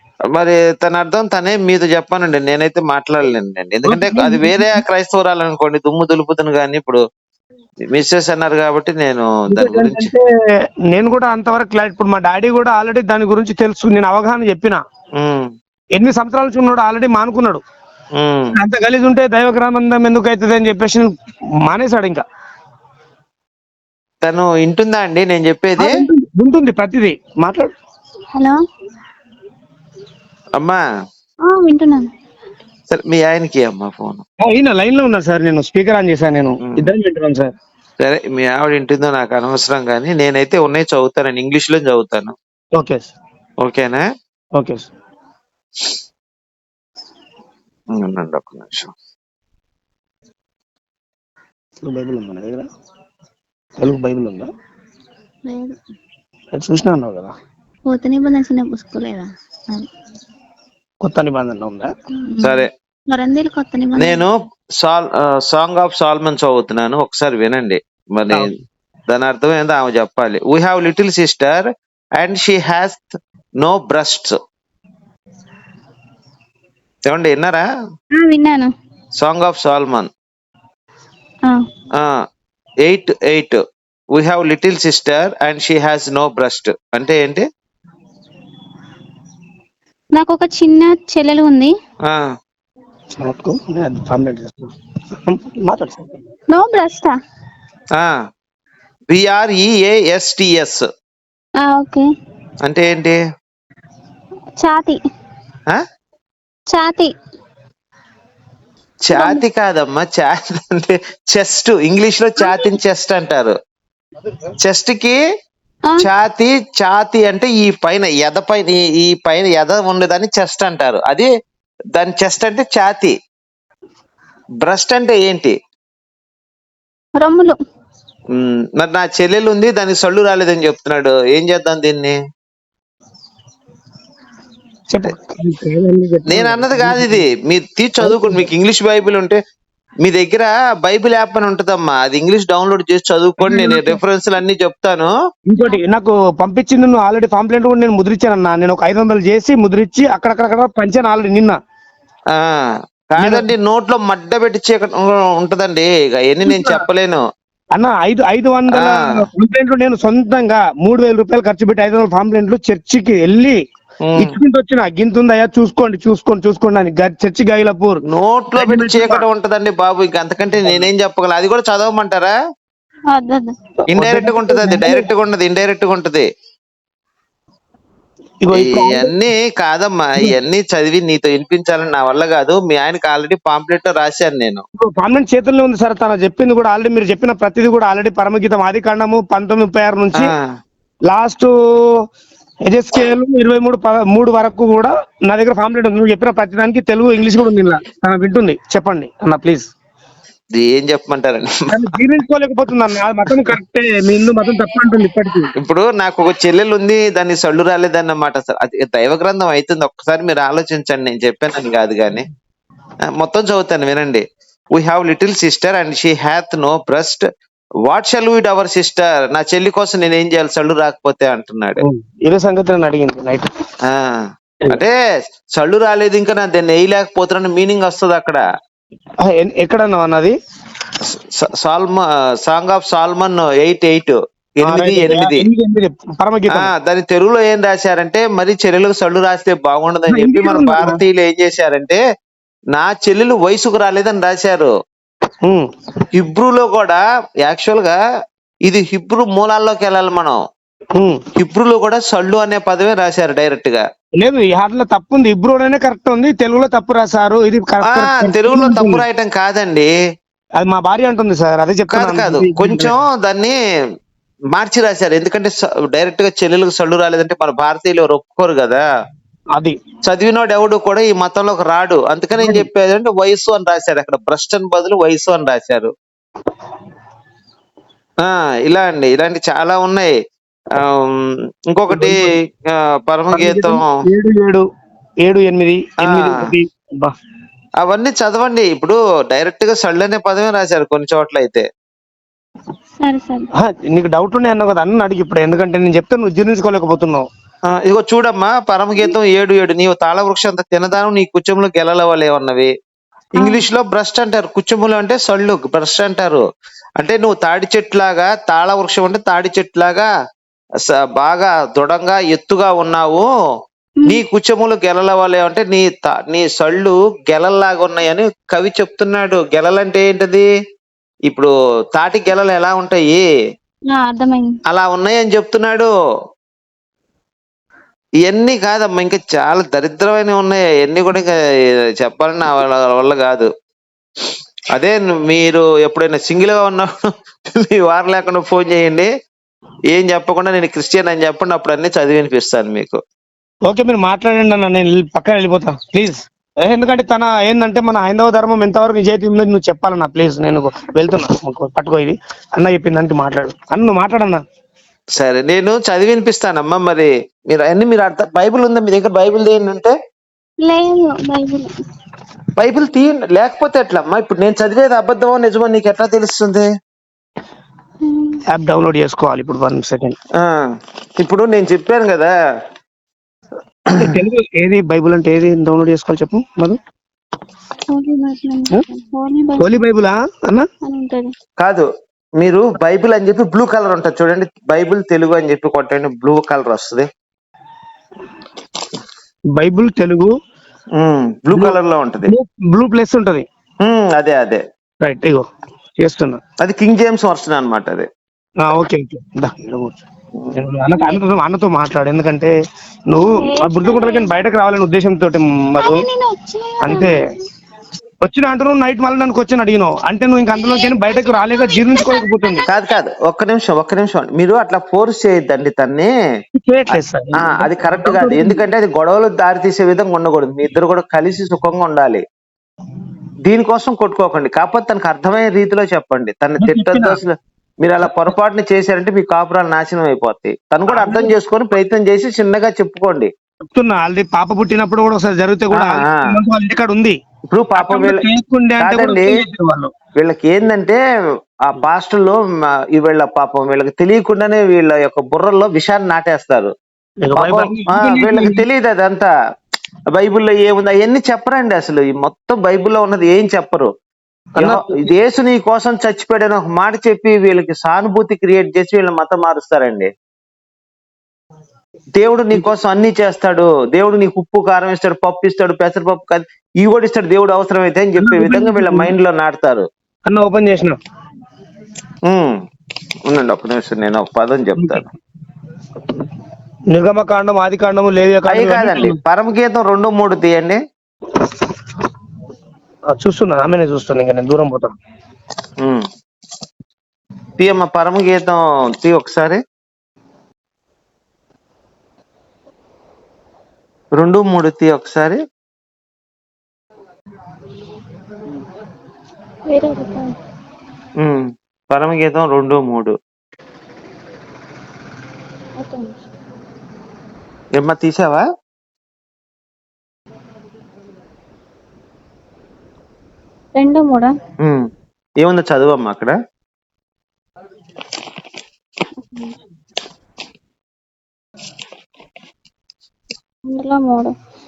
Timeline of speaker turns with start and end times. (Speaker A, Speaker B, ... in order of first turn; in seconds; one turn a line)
Speaker A: 0.3-7.0
Speaker B: 3.9-4.8
Speaker A: 7.9-10.1
Speaker B: 9.5-10.2
Speaker B: 10.9-14.8
Speaker A: 15.2-15.5
Speaker B: 15.9-17.6
Speaker A: 18.1-18.6
Speaker B: 18.5-21.1
Speaker B: 21.6-22.2
Speaker A: 24.2-26.0
Speaker B: 25.8-27.7
Speaker C: 28.3-28.6
Speaker A: 30.6-30.8
Speaker C: 31.4-32.1
Speaker A: 32.9-34.2
Speaker B: 34.4-37.5
Speaker A: 36.6-36.9
Speaker A: 38.0-42.3
Speaker B: 42.8-43.1
Speaker A: 43.6-44.0
Speaker B: 44.6-44.9
Speaker A: 47.9-48.9
Speaker B: 51.8-52.7
Speaker B: 53.8-54.5
Speaker C: 55.5-55.8
Speaker B: 56.5-57.3
Speaker C: 57.9-59.9
Speaker B: 61.0-61.9
Speaker C: 62.2-64.2
Speaker A: 62.4-62.7
Speaker A: 64.0-68.5
Speaker A: 69.1-74.3
Speaker A: 77.0-77.7
Speaker C: 78.1-78.7
Speaker A: 79.2-80.1
Speaker A: 82.8-83.6
Speaker A: 84.1-87.5
Speaker C: 90.2-91.7
Speaker B: 93.2-96.2
Speaker C: 96.5-97.2
Speaker A: 99.1-100.8
Speaker C: 101.6-102.1
Speaker A: 102.6-103.2
Speaker C: 104.5-105.0
Speaker C: 106.7-107.1
Speaker A: 109.0-113.5
Speaker C: 109.1-109.4
Speaker C: 112.4-112.7
Speaker A: 114.6-115.2
Speaker A: 116.0-121.3
Speaker A: 121.9-123.1
Speaker A: 124.6-125.5
Speaker C: 127.2-127.6
Speaker A: 128.3-132.2
Speaker B: 134.9-137.2
Speaker A: 136.3-139.4
Speaker B: 138.0-138.4
Speaker A: 140.0-145.1
Speaker B: 143.4-144.0
Speaker B: 145.5-151.6
Speaker A: 152.3-157.2
Speaker B: 153.2-153.5
Speaker B: 156.5-156.8
Speaker B: 157.7-163.6
Speaker A: 158.7-159.1
Speaker A: 164.0-164.3
Speaker B: 164.2-168.0
Speaker A: 168.1-172.3
Speaker B: 168.6-169.2
Speaker C: 173.1-173.6
Speaker B: 173.9-175.1
Speaker A: 173.9-176.3
Speaker B: 178.4-179.1
Speaker A: 178.5-184.6
Speaker B: 184.8-190.3
Speaker A: 190.1-190.5
Speaker B: 191.1-192.0
Speaker B: 192.7-199.7
Speaker A: 200.5-201.9
Speaker B: 201.7-205.5
Speaker A: 205.6-212.2
Speaker A: 213.1-217.2
Speaker A: 217.8-221.8
Speaker B: 221.8-223.5
Speaker A: 223.8-225.0
Speaker A: 225.5-228.4
Speaker B: 229.2-230.3
Speaker A: 231.0-235.4
Speaker B: 234.6-236.7
Speaker A: 236.5-242.0
Speaker B: 240.1-241.0
Speaker A: 242.7-244.7
Speaker A: 246.1-248.0
Speaker A: 248.7-250.4
Speaker B: 250.9-251.2
Speaker A: 251.4-253.8
Speaker B: 254.2-259.0
Speaker A: 257.8-259.9
Speaker B: 260.6-262.9
Speaker A: 261.9-263.6
Speaker A: 264.5-268.8
Speaker A: 270.0-275.9
Speaker B: 272.4-272.6
Speaker A: 278.2-280.1
Speaker A: 280.7-283.9
Speaker B: 281.9-282.3
Speaker B: 283.3-284.6
Speaker B: 285.2-287.1
Speaker A: 286.0-286.5
Speaker A: 287.8-291.7
Speaker C: 293.0-293.5
Speaker B: 293.6-297.3
Speaker A: 297.7-302.7
Speaker C: 303.4-303.6
Speaker A: 303.4-306.4
Speaker A: 307.0-310.1
Speaker A: 310.9-313.3
Speaker A: 314.1-320.5
Speaker A: 321.3-323.2
Speaker C: 323.9-324.5
Speaker A: 324.7-325.9
Speaker A: 328.2-331.3
Speaker A: 332.0-333.5
Speaker A: 334.7-336.9
Speaker A: 337.4-339.1
Speaker A: 339.9-343.0
Speaker B: 343.7-354.4
Speaker A: 355.2-359.9
Speaker C: 360.6-361.7
Speaker A: 362.6-366.7
Speaker C: 368.0-368.4
Speaker B: 368.5-370.1
Speaker A: 370.4-372.3
Speaker A: 373.9-374.2
Speaker B: 373.9-376.8
Speaker C: 377.9-379.7
Speaker B: 379.6-380.7
Speaker C: 380.8-381.3
Speaker A: 381.6-381.9
Speaker A: 382.4-387.1
Speaker B: 389.5-390.3
Speaker A: 390.9-392.3
Speaker B: 391.5-393.4
Speaker A: 393.8-394.6
Speaker B: 395.0-395.5
Speaker B: 396.0-396.4
Speaker A: 396.6-398.1
Speaker B: 398.6-400.0
Speaker B: 400.5-402.5
Speaker C: 400.9-401.2
Speaker B: 403.1-406.1
Speaker C: 403.2-404.4
Speaker C: 405.8-407.2
Speaker B: 406.8-407.2
Speaker B: 408.2-412.6
Speaker C: 410.6-412.7
Speaker A: 412.7-416.1
Speaker B: 416.5-418.6
Speaker A: 417.3-422.2
Speaker A: 423.4-433.3
Speaker B: 426.6-427.2
Speaker B: 430.9-431.3
Speaker B: 433.7-437.2
Speaker A: 435.7-436.4
Speaker A: 437.5-438.2
Speaker B: 437.8-439.9
Speaker A: 438.8-439.4
Speaker A: 440.2-441.0
Speaker A: 441.6-446.7
Speaker B: 447.2-448.6
Speaker A: 447.3-449.3
Speaker A: 450.1-453.9
Speaker B: 454.5-455.1
Speaker A: 454.6-460.1
Speaker A: 462.1-469.9
Speaker B: 468.2-469.1
Speaker B: 470.3-471.0
Speaker A: 472.2-472.6
Speaker A: 473.2-475.0
Speaker B: 474.8-475.0
Speaker B: 476.9-479.2
Speaker A: 478.5-480.8
Speaker B: 483.1-484.9
Speaker A: 485.8-486.1
Speaker A: 487.6-489.6
Speaker A: 494.1-495.4
Speaker C: 499.7-500.3
Speaker A: 501.2-503.1
Speaker C: 505.8-506.1
Speaker A: 507.8-508.4
Speaker C: 513.8-514.3
Speaker A: 514.6-514.9
Speaker A: 515.4-516.4
Speaker C: 519.3-519.5
Speaker C: 523.7-524.3